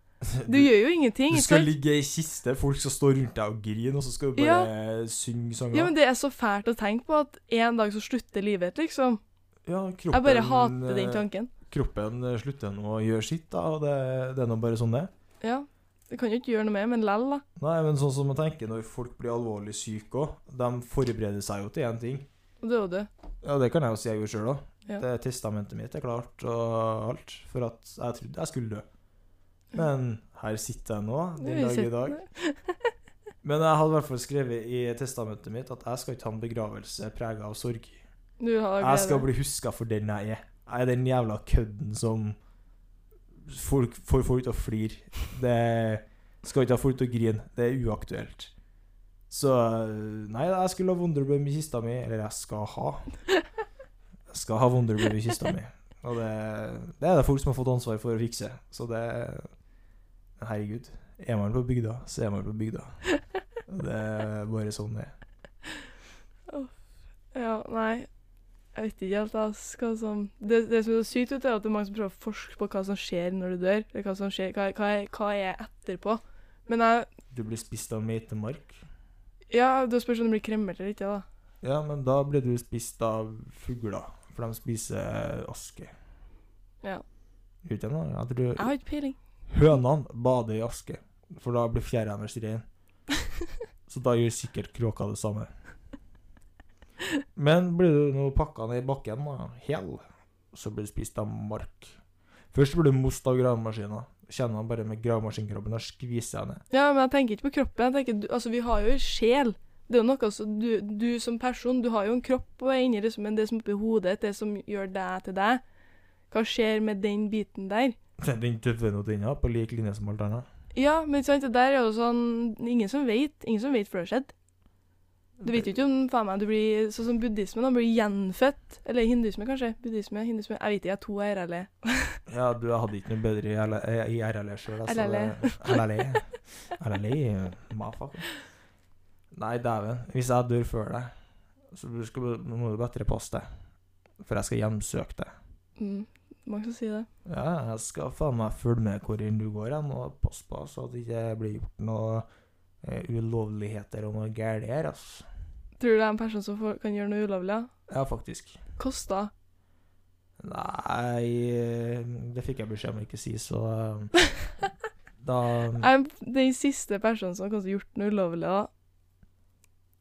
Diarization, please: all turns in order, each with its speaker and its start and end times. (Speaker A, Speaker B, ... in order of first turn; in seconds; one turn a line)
Speaker A: 0.2-0.7
Speaker B: 0.5-1.7
Speaker A: 1.3-5.9
Speaker B: 4.3-4.7
Speaker B: 5.7-9.2
Speaker A: 9.7-15.1
Speaker B: 10.1-11.5
Speaker B: 15.4-17.4
Speaker A: 17.6-22.3
Speaker B: 22.6-23.1
Speaker A: 23.4-28.9
Speaker A: 29.7-32.2
Speaker B: 31.4-32.9
Speaker A: 33.4-38.0
Speaker B: 38.4-39.3
Speaker A: 38.8-42.4
Speaker A: 43.5-48.5
Speaker A: 49.3-53.1
Speaker A: 54.3-59.5
Speaker A: 60.4-63.0
Speaker A: 63.7-65.1
Speaker B: 67.3-68.1
Speaker B: 68.7-77.1
Speaker A: 77.3-78.8
Speaker B: 79.5-81.2
Speaker A: 81.6-85.9
Speaker A: 87.6-88.7
Speaker B: 88.6-89.2
Speaker A: 89.5-92.6
Speaker A: 93.9-95.5
Speaker A: 97.3-102.0
Speaker A: 102.5-106.6
Speaker B: 106.7-115.6
Speaker B: 116.3-118.0
Speaker A: 118.2-120.5
Speaker B: 120.7-124.3
Speaker A: 125.4-125.7
Speaker B: 125.4-132.2
Speaker A: 132.3-138.3
Speaker B: 134.8-135.9
Speaker A: 139.3-141.1
Speaker A: 141.7-143.5
Speaker A: 144.2-145.3
Speaker B: 145.8-147.1
Speaker A: 147.2-152.3
Speaker A: 152.8-155.2
Speaker B: 155.8-157.7
Speaker A: 157.9-158.6
Speaker B: 158.8-159.3
Speaker A: 160.4-164.2
Speaker A: 165.2-165.9
Speaker B: 165.8-168.7